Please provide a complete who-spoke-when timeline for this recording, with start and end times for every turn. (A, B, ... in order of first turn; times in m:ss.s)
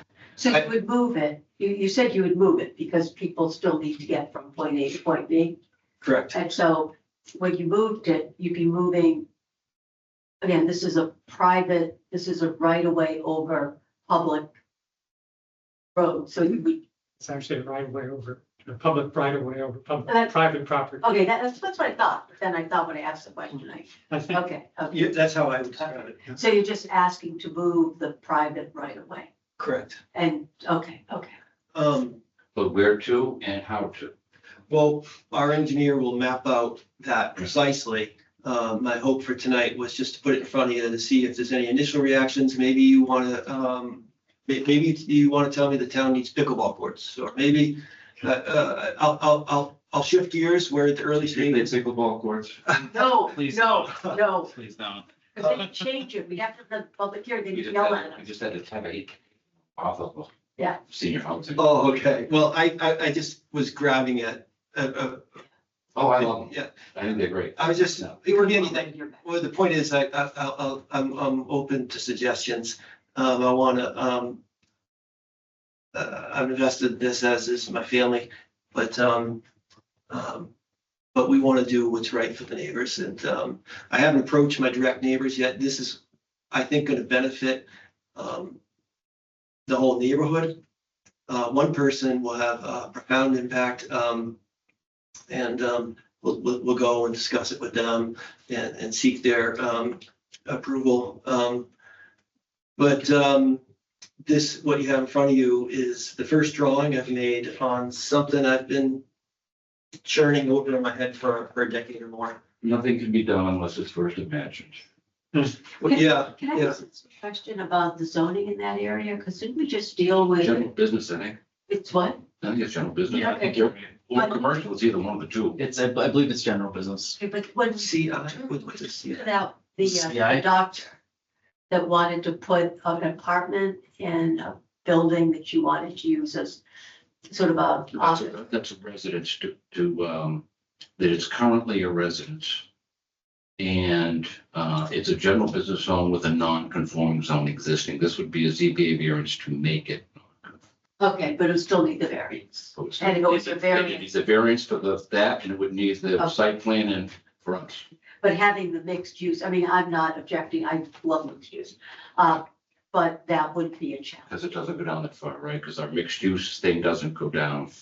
0:00.4-0:05.6 A
0:06.0-0:06.4 B
0:06.3-0:09.2 A
0:10.4-0:14.5 A
0:16.0-0:16.8 A
0:17.2-0:21.1 C
0:20.1-0:20.5 A
0:21.0-0:25.1 A
0:24.1-0:24.4 C
0:24.9-0:26.2 B
0:26.4-0:29.3 A
0:29.6-0:30.0 B
0:30.1-0:31.4 A
0:31.7-0:32.2 B
0:32.6-0:34.1 D
0:34.7-0:51.8 B
0:51.3-0:55.1 E
0:52.9-0:54.5 A
0:55.4-0:58.3 A
0:57.5-0:59.2 D
0:59.8-1:00.3 D
1:00.9-1:01.8 D
1:01.6-1:05.4 B
1:06.0-1:08.2 D
1:06.2-1:14.4 B
1:08.2-1:09.2 A
1:15.9-1:19.4 B
1:20.1-1:20.5 B
1:21.1-1:28.6 B
1:29.7-1:30.6 B
1:31.3-1:34.4 B
1:35.3-1:41.7 B
1:42.8-1:43.6 B
1:44.2-1:49.0 B
1:50.0-1:52.4 B
1:52.6-1:54.8 D
1:55.8-1:56.8 B
1:55.8-2:00.7 A
2:00.4-2:01.4 D
2:01.7-2:02.2 A
2:02.4-2:05.6 D
2:03.1-2:03.7 E
2:03.3-2:04.6 A
2:05.6-2:07.2 E
2:07.2-2:08.2 A
2:07.7-2:09.3 B
2:09.0-2:11.0 A
2:09.8-2:10.5 E
2:11.7-2:16.6 A
2:17.3-2:18.4 A
2:17.9-2:20.4 D
2:21.0-2:22.6 D
2:23.6-2:30.6 D
2:31.0-2:34.1 A
2:32.8-2:37.9 D
2:38.2-2:44.3 A
2:44.3-2:47.7 D